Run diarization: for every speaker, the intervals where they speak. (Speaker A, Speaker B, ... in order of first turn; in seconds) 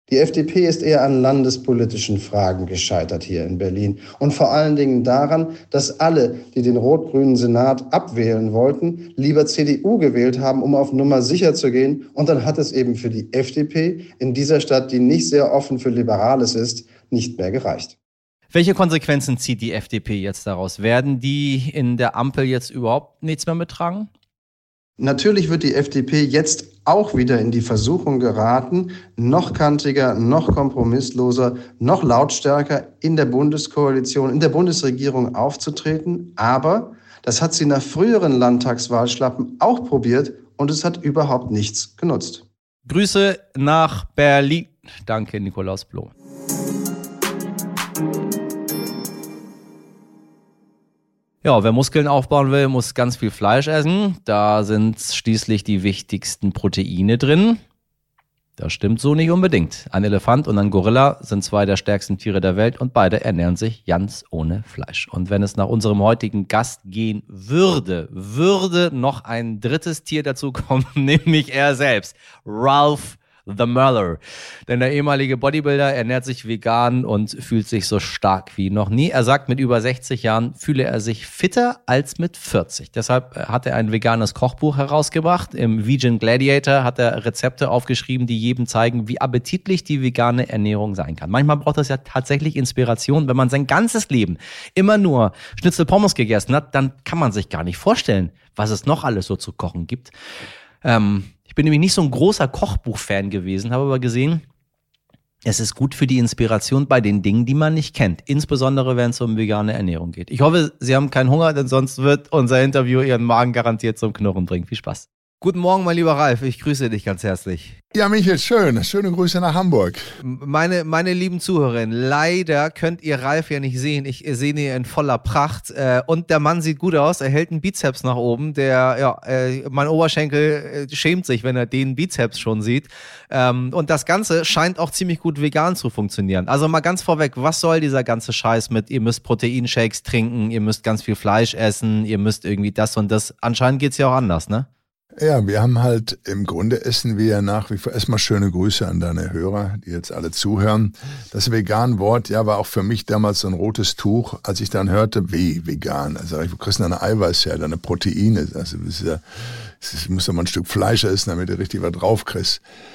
Speaker A: 0.1-18.0, 25.0-42.5
Speaker B: 18.5-24.1, 42.9-46.1, 51.4-57.6, 58.6-100.1, 100.8-104.4, 105.5-117.8, 120.2-144.7
Speaker C: 117.9-120.0, 145.2-159.2, 159.8-162.6